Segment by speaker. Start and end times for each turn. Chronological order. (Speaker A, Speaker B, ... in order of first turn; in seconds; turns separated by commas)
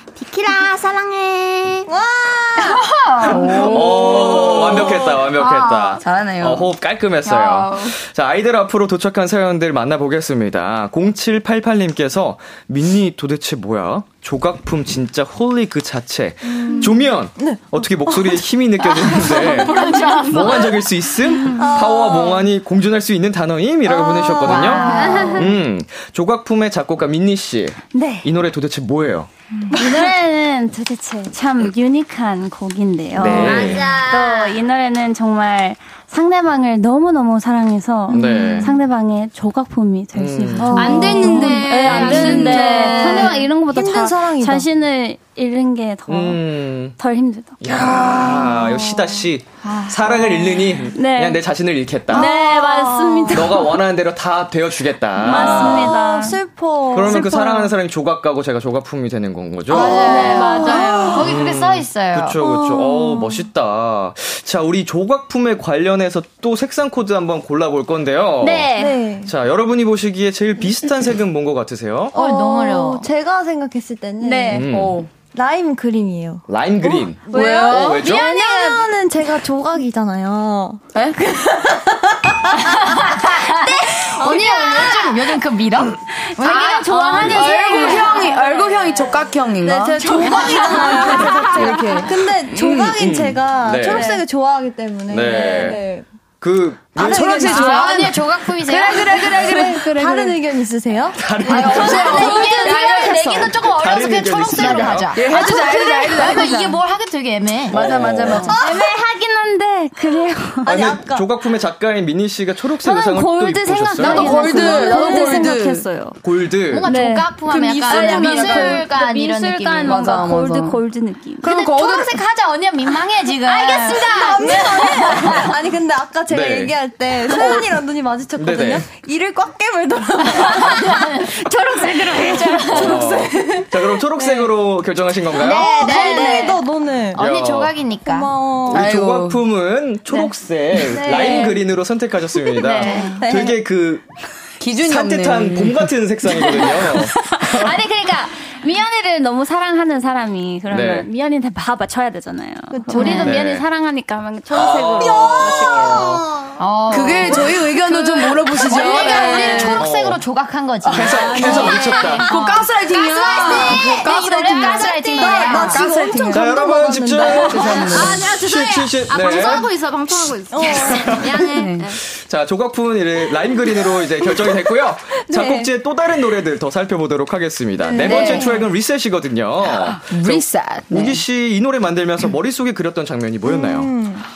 Speaker A: 1.9-2.8, Speaker B: 2.8-3.3, Speaker C: 3.2-6.7, Speaker D: 3.3-29.3, Speaker C: 7.2-7.9, Speaker A: 16.4-18.4, Speaker C: 19.8-20.3, Speaker A: 21.5-22.4, Speaker A: 23.9-25.4, Speaker B: 24.4-25.4, Speaker E: 24.5-25.3, Speaker F: 25.0-25.4, Speaker E: 27.9-28.3, Speaker E: 29.7-47.6, Speaker D: 33.1-33.9, Speaker F: 33.2-34.5, Speaker A: 38.1-38.7, Speaker D: 38.1-38.7, Speaker D: 40.1-40.9, Speaker A: 40.6-44.7, Speaker B: 40.8-43.4, Speaker F: 41.2-43.2, Speaker D: 46.1-47.0, Speaker D: 47.6-52.3, Speaker A: 47.7-49.1, Speaker E: 50.9-51.4, Speaker E: 52.1-53.8, Speaker A: 52.1-53.5, Speaker D: 53.3-56.0, Speaker E: 55.2-56.4, Speaker A: 55.2-57.7, Speaker D: 56.9-60.1, Speaker B: 59.7-62.4, Speaker E: 59.7-61.3, Speaker D: 61.1-68.7, Speaker A: 62.4-63.4, Speaker E: 68.4-69.0, Speaker A: 68.8-69.3, Speaker D: 69.2-72.1, Speaker A: 72.1-74.6, Speaker B: 72.1-73.0, Speaker E: 74.2-74.7, Speaker D: 74.5-75.0, Speaker C: 74.6-75.1, Speaker A: 75.3-80.8, Speaker D: 76.5-78.3, Speaker C: 77.3-78.0, Speaker E: 77.5-78.8, Speaker C: 80.9-81.3, Speaker B: 82.7-88.2, Speaker E: 84.0-85.1, Speaker E: 86.4-89.1, Speaker C: 87.2-92.1, Speaker A: 89.6-96.0, Speaker E: 90.0-91.4, Speaker B: 90.3-91.0, Speaker D: 92.7-94.1, Speaker E: 93.9-94.2, Speaker D: 95.1-95.8, Speaker D: 96.4-97.7, Speaker C: 96.9-100.4, Speaker A: 97.0-97.3, Speaker B: 97.3-99.3, Speaker A: 99.4-101.3, Speaker D: 101.1-102.2, Speaker C: 101.5-103.5, Speaker E: 101.5-103.6, Speaker B: 101.5-108.5, Speaker D: 103.6-105.2, Speaker C: 105.1-106.8, Speaker E: 105.3-106.2, Speaker D: 107.7-108.6, Speaker C: 107.7-108.6, Speaker E: 108.5-110.7, Speaker A: 110.6-111.3, Speaker D: 110.7-114.6, Speaker E: 112.8-116.2, Speaker C: 114.0-115.9, Speaker A: 114.4-115.6, Speaker D: 116.2-116.9, Speaker B: 116.7-120.0, Speaker E: 116.8-121.6, Speaker C: 117.5-118.8, Speaker C: 119.8-120.8, Speaker C: 121.4-122.2, Speaker B: 121.4-125.5, Speaker E: 123.4-125.3, Speaker A: 124.1-131.0, Speaker D: 126.3-126.8, Speaker D: 128.3-128.9, Speaker E: 130.5-133.1, Speaker A: 132.2-133.7, Speaker D: 132.7-135.8, Speaker B: 135.3-136.6, Speaker A: 135.4-137.2, Speaker E: 135.8-136.5, Speaker D: 137.1-137.7, Speaker B: 137.1-138.3, Speaker A: 138.0-138.8, Speaker D: 138.7-144.1, Speaker C: 138.7-139.4, Speaker A: 140.9-141.6, Speaker E: 142.6-143.2, Speaker B: 142.7-143.1, Speaker A: 143.1-143.6, Speaker C: 144.6-145.9, Speaker D: 144.7-147.8, Speaker E: 147.3-156.2, Speaker D: 150.7-151.1, Speaker A: 152.7-153.3, Speaker B: 152.9-153.3, Speaker D: 153.1-153.7, Speaker D: 154.5-156.2, Speaker A: 155.0-155.9, Speaker B: 156.6-157.5, Speaker C: 156.9-159.9, Speaker E: 158.2-159.7, Speaker B: 158.5-165.8, Speaker A: 158.9-159.4, Speaker D: 159.7-160.2, Speaker C: 160.8-166.7, Speaker D: 160.9-162.3, Speaker A: 161.2-161.9, Speaker E: 163.2-165.6, Speaker A: 165.1-168.2, Speaker D: 166.3-169.7, Speaker C: 167.2-168.3, Speaker F: 167.8-172.0, Speaker A: 170.5-171.2, Speaker D: 170.8-183.9, Speaker C: 171.3-171.9, Speaker A: 175.3-175.7, Speaker A: 177.8-178.7, Speaker C: 177.9-178.6, Speaker C: 179.9-181.2, Speaker A: 183.4-184.3